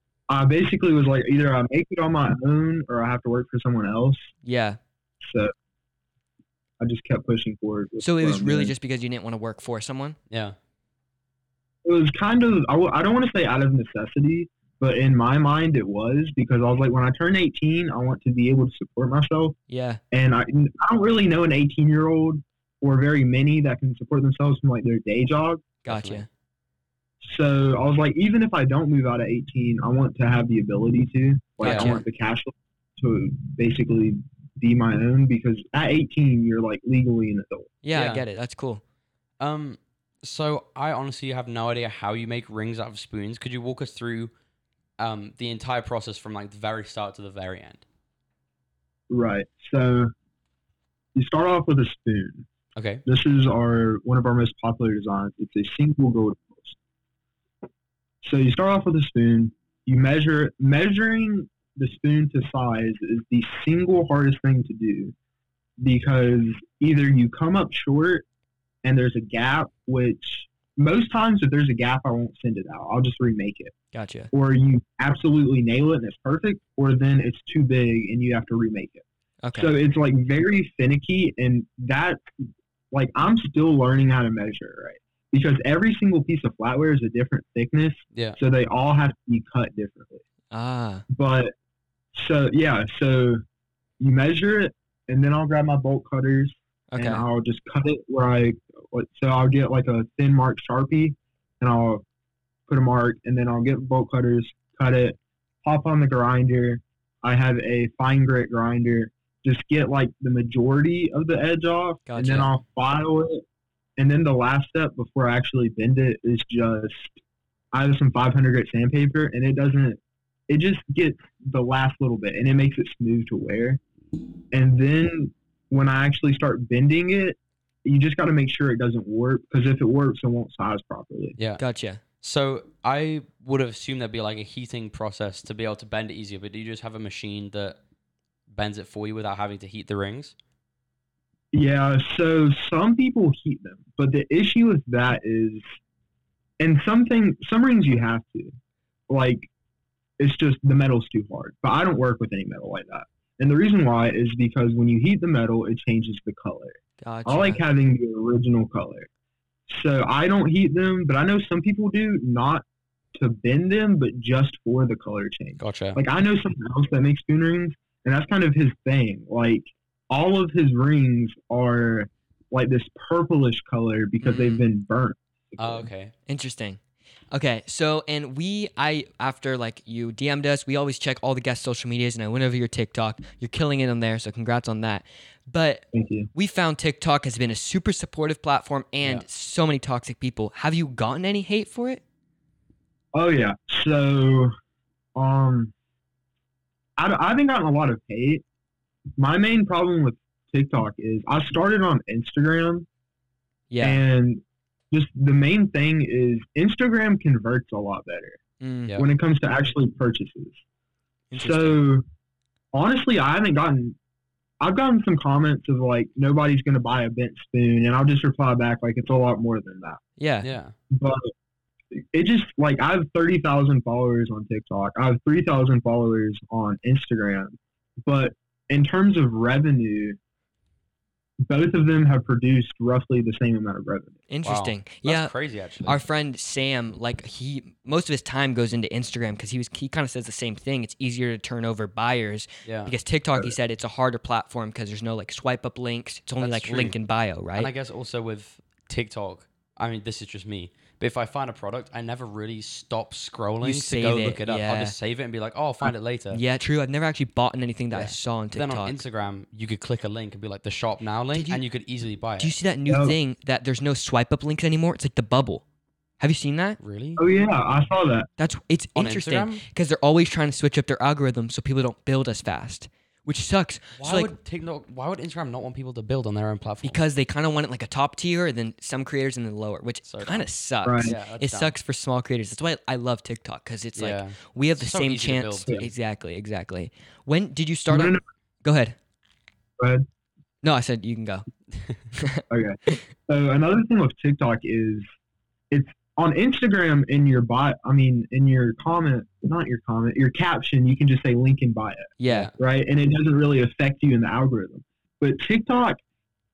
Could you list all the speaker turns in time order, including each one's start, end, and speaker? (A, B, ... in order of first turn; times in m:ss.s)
0:00.3-0:04.3 A
0:04.4-0:04.8 B
0:05.2-0:05.5 A
0:06.8-0:08.7 A
0:08.0-0:10.2 B
0:10.3-0:10.6 C
0:11.8-0:19.6 A
0:19.7-0:20.0 B
0:20.1-0:25.7 A
0:25.9-0:26.3 B
0:25.9-0:26.3 C
0:27.2-0:37.7 A
0:31.6-0:32.0 B
0:31.6-0:32.0 C
0:37.8-0:38.8 B
0:37.9-0:38.3 C
0:39.4-0:44.3 C
0:45.0-0:47.8 C
0:49.1-0:50.1 A
0:51.2-0:52.5 A
0:52.8-0:53.0 C
0:53.0-0:56.8 A
0:58.2-1:05.1 A
1:05.8-1:08.2 A
1:08.8-1:13.7 A
1:13.9-1:14.3 B
1:14.3-1:19.0 A
1:19.4-1:19.7 B
1:19.6-1:22.2 A
1:22.9-1:30.2 A
1:30.5-1:31.0 B
1:31.1-1:31.5 A
1:32.1-1:33.4 A
1:34.0-1:42.0 A
1:36.9-1:37.2 B
1:42.7-1:53.4 A
1:52.1-1:52.5 B
1:54.0-1:57.2 A
1:57.7-2:03.8 A
2:04.5-2:11.4 A
2:11.6-2:12.0 B
2:12.2-2:17.8 C
2:18.5-2:20.4 C
2:21.5-2:25.6 A
2:26.6-2:28.5 A
2:29.1-2:29.5 A
2:30.2-2:39.1 A
2:37.0-2:37.6 B
2:39.7-2:55.9 A
2:45.6-2:46.0 C
2:54.2-2:54.6 B
2:55.6-2:56.1 C
2:56.3-2:56.8 B
2:57.3-3:12.0 B
3:05.9-3:06.3 A
3:13.1-3:14.5 A
3:15.2-3:15.7 A
3:17.0-3:18.4 A
3:19.2-3:22.9 A
3:23.7-3:24.0 B
3:23.8-3:28.4 A
3:28.6-3:29.0 B
3:29.0-3:30.6 A
3:31.3-3:31.8 B
3:31.4-3:32.0 A
3:32.7-3:34.0 A
3:34.6-3:40.0 A
3:40.2-3:40.5 B
3:40.4-3:40.8 C
3:40.9-3:41.3 A
3:41.9-3:50.2 A
3:51.4-3:54.2 A
3:54.3-3:55.3 B
3:54.4-3:56.0 C
3:55.9-4:07.7 B
4:02.6-4:02.9 C
4:06.4-4:07.0 C
4:07.6-4:16.4 C
4:13.6-4:14.9 B
4:16.3-4:19.0 B
4:17.9-4:22.6 C
4:21.3-4:21.6 B
4:22.4-4:25.6 B
4:22.9-4:23.2 A
4:26.2-4:26.8 B
4:26.8-4:27.2 C
4:27.2-4:28.3 A
4:28.4-4:34.3 B
4:29.0-4:29.6 C
4:34.0-4:37.0 C
4:36.8-4:49.0 B
4:40.1-4:40.5 C
4:40.8-4:41.2 A
4:41.0-4:41.7 C
4:44.0-4:45.9 C
4:47.9-4:48.2 A
4:49.8-4:50.0 A
4:50.6-4:51.5 B
4:52.2-4:53.0 B
4:52.5-4:55.0 A
4:55.7-5:06.0 A
5:02.2-5:02.5 B
5:02.3-5:02.5 C